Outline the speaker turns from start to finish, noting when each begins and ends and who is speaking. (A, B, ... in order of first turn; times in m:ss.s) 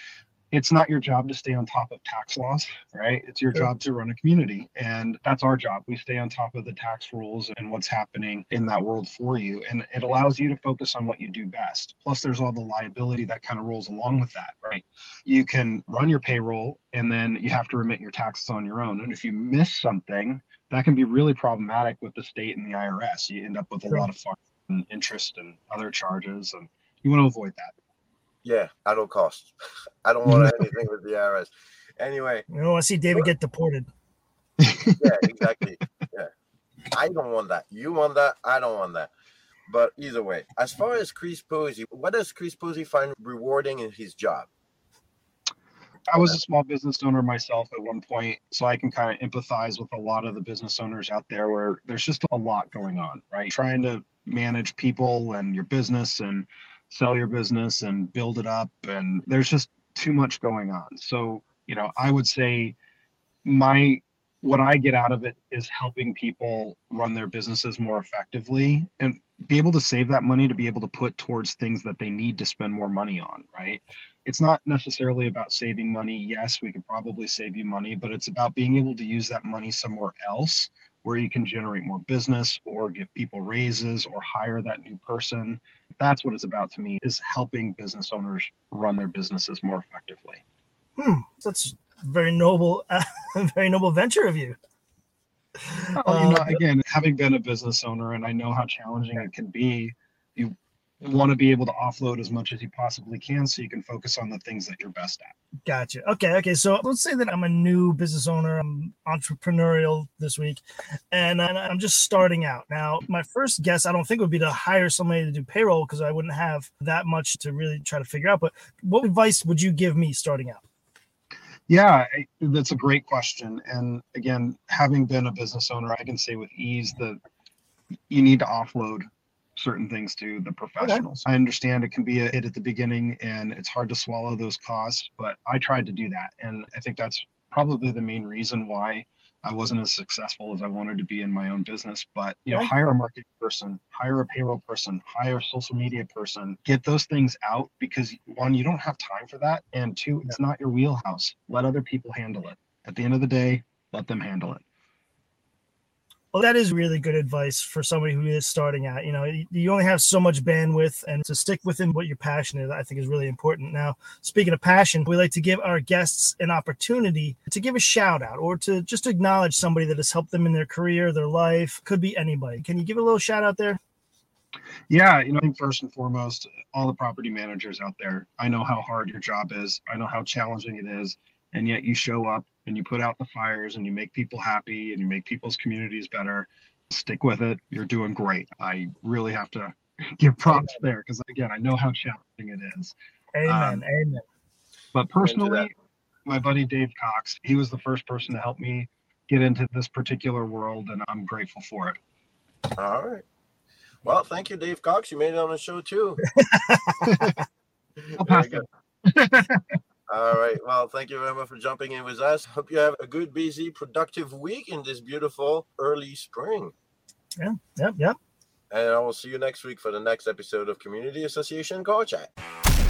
0:00.5-0:27.7 A
0:28.4-0:29.5 B
0:30.0-0:32.4 B
0:32.5-0:33.9 C
0:34.6-0:35.1 A
0:34.9-0:36.3 B
0:36.9-0:39.1 B
0:39.7-0:44.5 B
0:46.1-1:02.8 A
1:03.4-1:30.4 A
1:31.0-1:34.6 C
1:35.7-1:36.6 C
1:35.9-1:45.3 A
1:45.6-2:00.6 C
2:01.7-2:07.2 A
2:08.1-2:34.6 A
2:36.3-2:53.8 C
2:54.9-3:13.8 A
3:13.3-3:14.2 C
3:14.9-3:15.7 A
3:15.2-3:15.7 B
3:16.3-3:22.0 A
3:22.8-3:23.2 B
3:24.0-3:26.2 B
3:26.4-3:27.3 C
3:27.0-3:27.3 A
3:28.2-3:28.7 B
3:28.3-3:29.6 A
3:30.1-3:36.7 B
3:37.4-3:38.2 C
3:38.7-3:42.3 B